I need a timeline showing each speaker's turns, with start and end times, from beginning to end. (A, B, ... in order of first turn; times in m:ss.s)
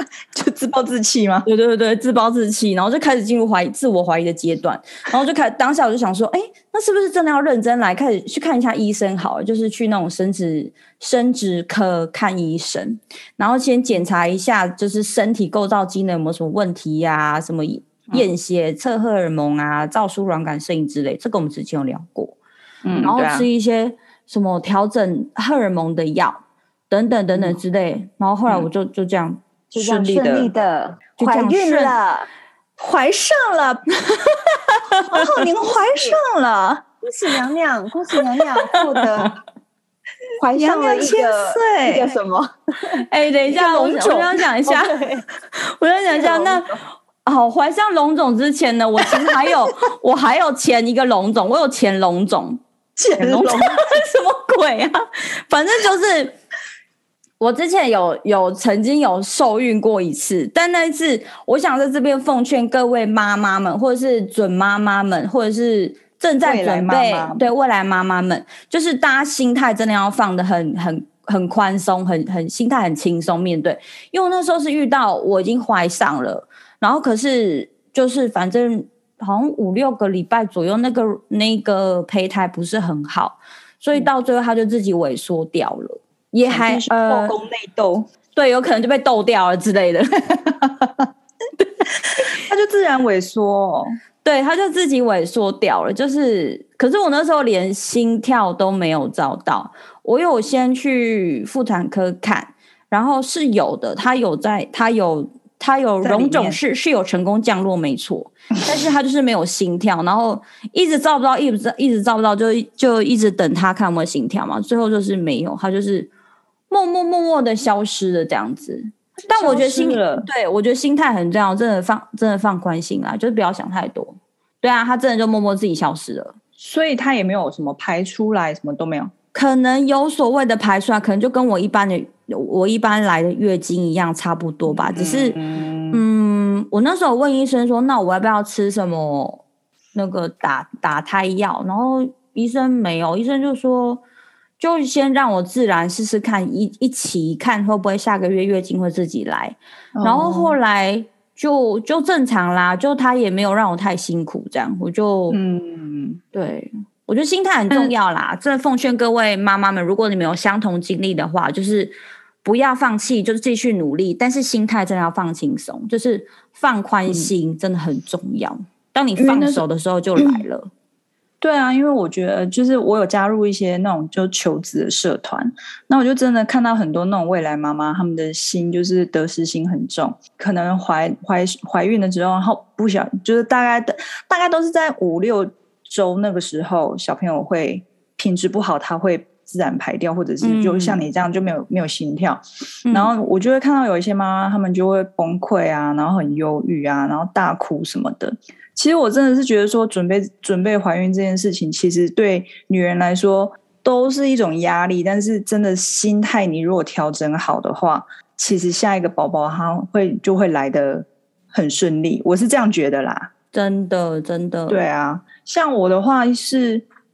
0:00.3-0:01.5 A
0:01.5-0:22.4 B
0:22.8-0:23.5 A
0:23.0-0:29.4 B
0:29.7-0:32.3 C
0:29.8-0:30.5 A
0:31.2-0:31.9 B
0:32.8-0:33.8 A
0:34.7-0:35.4 B
0:35.1-0:36.8 A
0:37.0-0:39.4 C
0:40.4-0:45.2 C
0:40.5-0:42.1 A
0:43.1-0:45.0 B
0:45.6-0:46.7 B
0:46.2-0:46.6 C
0:47.2-0:52.6 B
0:53.0-0:53.8 A
0:53.2-0:56.4 B
0:57.4-1:27.4 B
1:06.4-1:07.5 A
1:26.4-1:28.1 A
1:28.4-1:30.8 B
1:32.2-1:33.9 A
1:34.2-1:56.1 B
1:46.0-1:46.6 A
1:56.7-2:06.4 B
1:59.2-2:00.3 A
2:06.6-2:09.1 A
2:09.3-2:15.4 B
2:14.7-2:16.0 A
2:15.9-2:19.4 B
2:19.9-2:24.0 B
2:24.6-2:35.4 B
2:30.0-2:30.6 A
2:35.3-2:36.2 A
2:36.3-2:50.7 B
2:49.2-2:49.6 A
2:50.2-2:50.4 A
2:51.4-3:33.3 A
3:10.4-3:11.0 B
3:12.9-3:13.1 B
3:33.5-3:34.8 B
3:34.7-3:36.8 A